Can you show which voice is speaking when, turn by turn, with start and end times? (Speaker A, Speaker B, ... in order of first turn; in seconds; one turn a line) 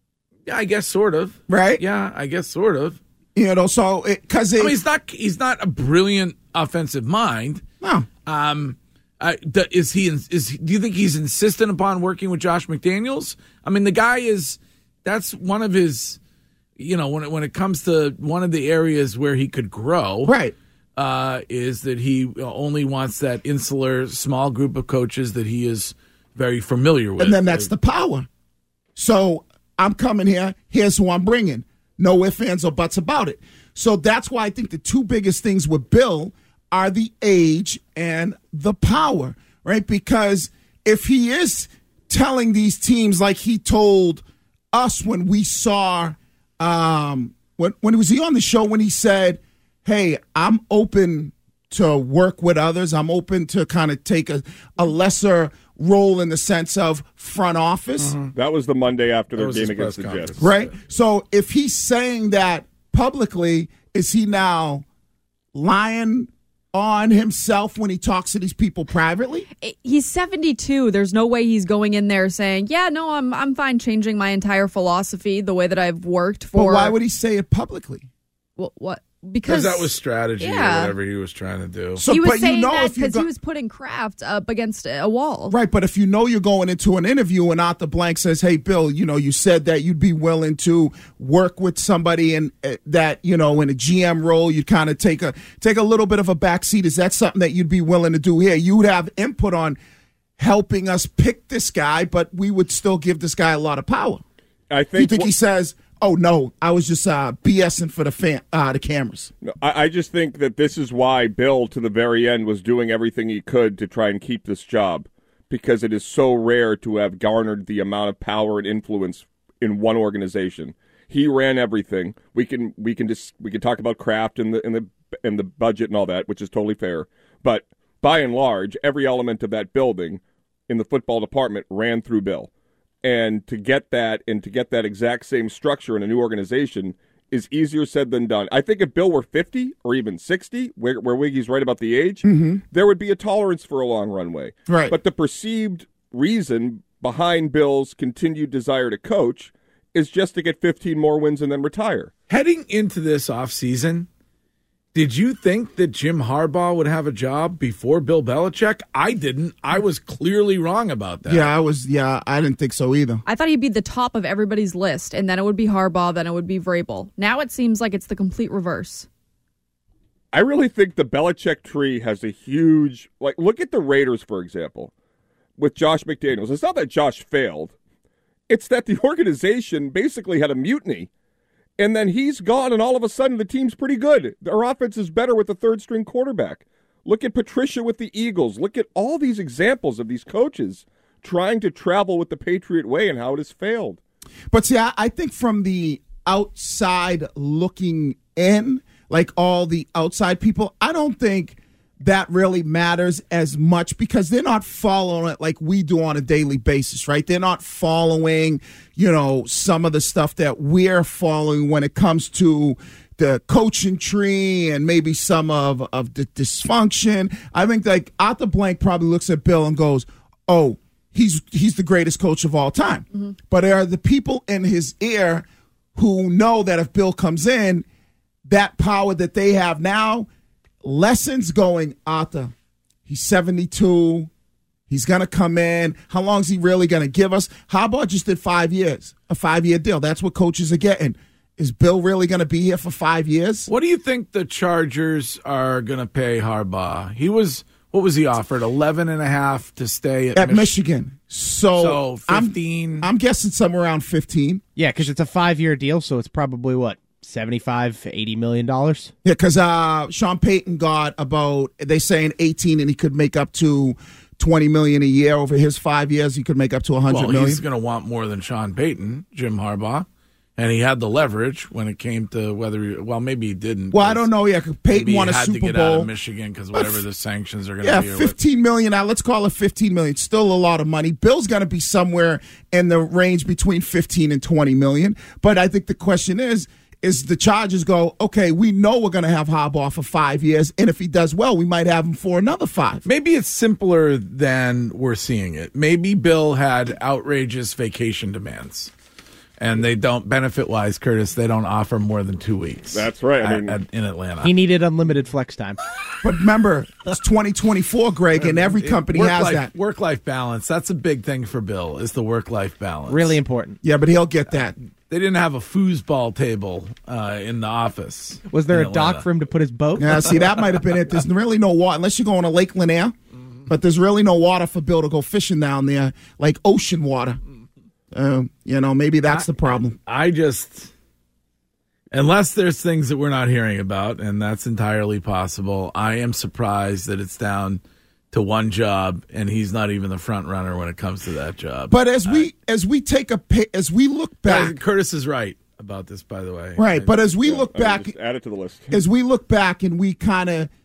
Speaker A: 0.5-3.0
Speaker B: 1.5-1.8
Speaker B: 3.4-4.8
Speaker A: 4.6-7.6
Speaker B: 7.8-8.1
Speaker A: 8.3-16.2
Speaker A: 16.8-20.4
Speaker B: 20.2-20.6
Speaker A: 21.0-27.7
Speaker B: 27.2-28.3
Speaker B: 29.0-58.2
Speaker A: 58.0-58.3
Speaker C: 58.4-60.4
Speaker A: 59.4-60.7
Speaker B: 60.4-64.8
Speaker B: 65.5-69.5
Speaker D: 69.6-77.0
Speaker B: 76.5-78.1
Speaker D: 78.6-81.0
Speaker A: 79.5-82.0
Speaker B: 82.0-83.3
Speaker D: 82.1-85.6
Speaker B: 85.5-99.8
Speaker B: 100.4-104.2
Speaker C: 104.7-105.3
Speaker B: 105.0-109.3
Speaker C: 109.4-132.5
Speaker C: 133.0-152.1
Speaker B: 142.2-142.6
Speaker B: 144.7-145.0
Speaker A: 152.3-154.1
Speaker A: 154.9-161.5
Speaker B: 161.2-163.2
Speaker D: 163.3-169.1
Speaker C: 170.3-174.9
Speaker C: 175.6-177.7
Speaker C: 178.5-181.1
Speaker C: 181.8-194.0
Speaker B: 194.5-227.8
Speaker B: 228.5-230.3
Speaker B: 230.8-232.5
Speaker B: 233.1-234.3
Speaker B: 234.9-243.7
Speaker A: 243.7-250.8
Speaker B: 250.3-254.6
Speaker A: 251.8-253.1
Speaker E: 254.8-259.1
Speaker B: 259.2-267.6
Speaker A: 267.1-270.1
Speaker A: 270.6-274.3
Speaker B: 273.9-276.1
Speaker A: 274.9-278.4
Speaker B: 276.8-277.0
Speaker B: 277.8-293.0
Speaker A: 293.1-298.9
Speaker A: 299.6-304.6
Speaker C: 302.9-303.8
Speaker E: 304.4-305.8
Speaker B: 306.2-309.7
Speaker A: 308.4-313.4
Speaker E: 313.1-313.8
Speaker B: 313.8-314.8
Speaker A: 315.1-319.5
Speaker E: 318.5-320.3
Speaker B: 320.0-323.1
Speaker B: 323.7-327.4
Speaker B: 328.1-330.0
Speaker A: 329.3-330.9
Speaker A: 332.1-337.8
Speaker A: 338.3-342.5
Speaker B: 341.9-344.8
Speaker A: 344.5-347.1
Speaker B: 346.8-348.1
Speaker C: 347.4-349.0
Speaker B: 348.9-350.7